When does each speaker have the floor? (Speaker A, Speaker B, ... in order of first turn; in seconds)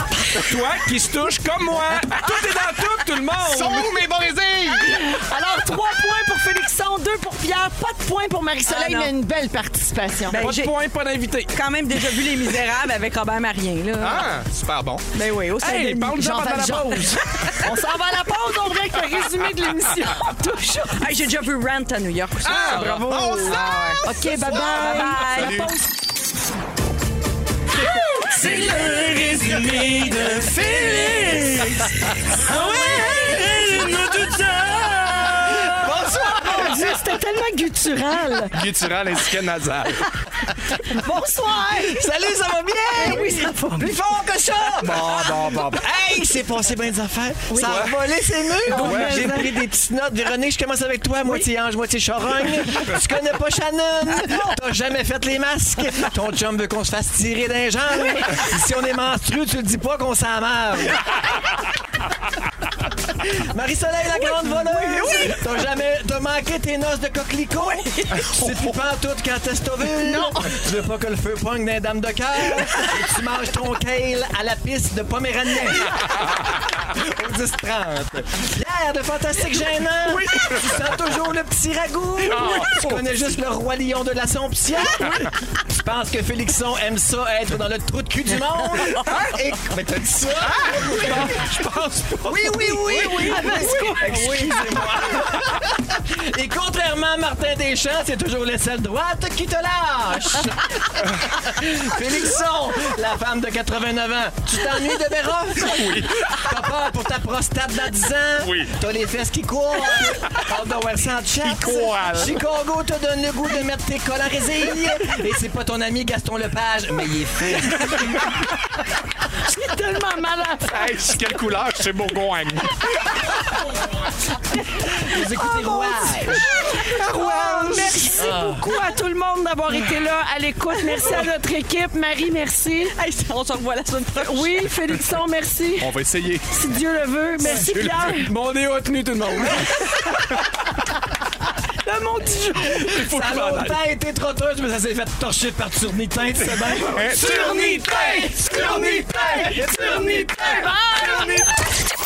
Speaker A: 0.3-4.0, 10.3-11.6, 15.6-17.2, 22.5-23.5, 29.8-30.2, 137.7-140.0, 142.6-143.8
Speaker B: 3.3-5.2, 14.0-15.1, 22.4-25.8, 28.7-29.1, 29.6-32.4, 34.3-35.1, 38.5-40.1, 44.8-45.9, 47.6-47.9, 48.8-49.1, 82.3-83.0, 90.5-91.3, 92.2-93.3, 105.6-106.1, 108.4-108.7, 111.4-112.3, 120.7-122.9, 126.7-128.4, 135.8-136.6, 137.4-138.2, 146.8-151.5
Speaker C: 4.8-10.5, 16.1-21.0, 24.0-25.8, 27.7-28.8, 32.5-33.8, 35.6-38.6, 40.8-42.1, 42.9-43.9, 47.5-49.6, 70.0-70.5, 92.9-94.8, 119.5-121.2, 124.5-132.9, 134.2-135.9, 136.5-138.3, 141.8-142.8, 147.2-149.8, 150.4-151.4
Speaker D: 8.7-9.1, 10.3-10.7, 11.5-14.3, 15.1-16.1, 20.9-25.7, 32.6-33.2, 64.2-65.4, 67.6-68.3, 132.9-134.7
Speaker E: 28.4-34.2, 35.4-36.9, 41.4-61.0, 63.2-118.3, 124.9-126.5, 128.3-128.6, 142.9-150.7